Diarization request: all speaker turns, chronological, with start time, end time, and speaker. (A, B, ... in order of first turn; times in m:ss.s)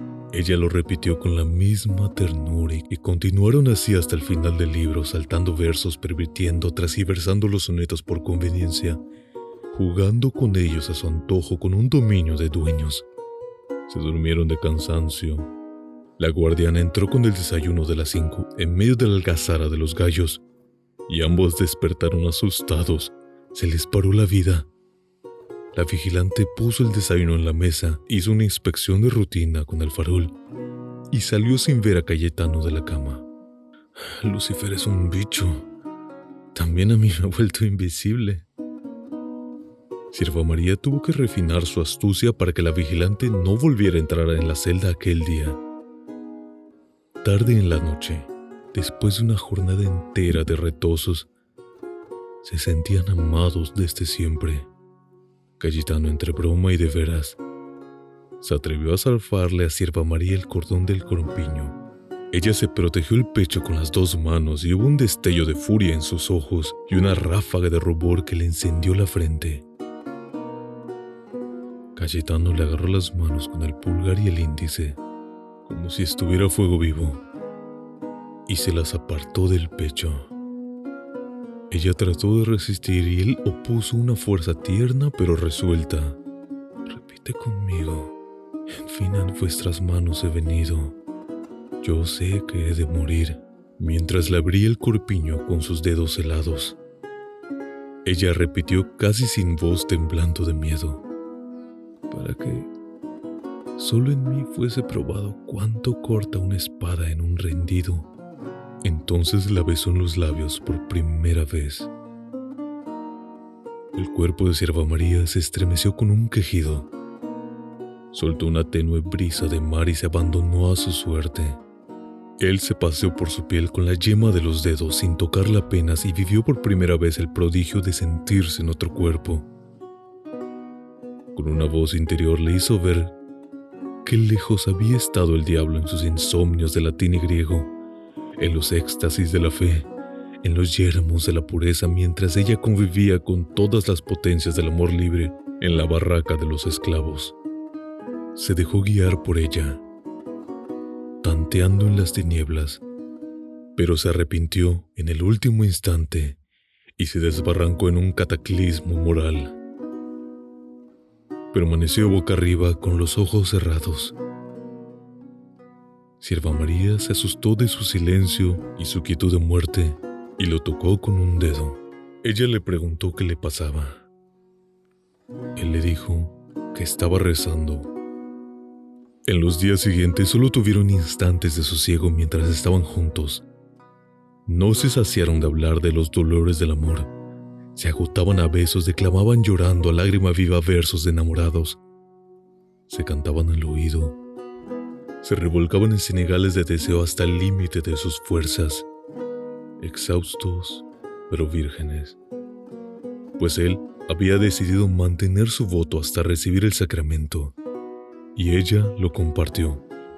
0:00.3-0:09.0 A
0:09.7-0:13.1 A
0:13.9-0:15.5 A
0:16.2-0:20.4 A
0:21.1-0:24.7 A
0:25.7-0:30.4 A
0:31.1-0:33.3 A
0:34.0-0:35.7 A
0:36.5-0:38.5 A
0:40.1-0:45.6 A
0:47.2-0:51.3 A
0:52.4-0:54.7 A
0:55.6-0:57.4 A
0:58.4-1:01.8 A
1:02.3-1:09.7 A
1:12.0-1:15.0 A
1:15.6-1:17.2 A
1:18.5-1:20.3 A
1:21.7-1:26.2 A
1:26.9-1:28.2 A
1:28.7-1:31.0 A
1:31.8-1:36.8 A
1:38.0-1:41.0 A
1:42.1-1:42.7 A
1:43.8-1:48.1 A
1:48.8-1:51.9 A
1:54.0-1:56.9 A
1:58.1-2:01.6 A
2:02.4-2:09.5 A
2:11.3-2:13.2 A
2:14.0-2:17.7 A
2:18.4-2:19.9 A
2:20.4-2:27.4 A
2:28.4-2:29.8 A
2:31.2-2:32.8 A
2:33.8-2:36.4 A
2:37.0-2:39.6 A
2:41.5-2:44.2 A
2:46.2-2:54.1 A
2:55.6-2:57.9 A
2:59.3-3:03.4 A
3:04.5-3:07.1 A
3:07.8-3:11.8 A
3:12.9-3:14.2 A
3:15.2-3:18.9 A
3:19.8-3:22.2 A
3:23.4-3:27.6 A
3:28.4-3:29.8 A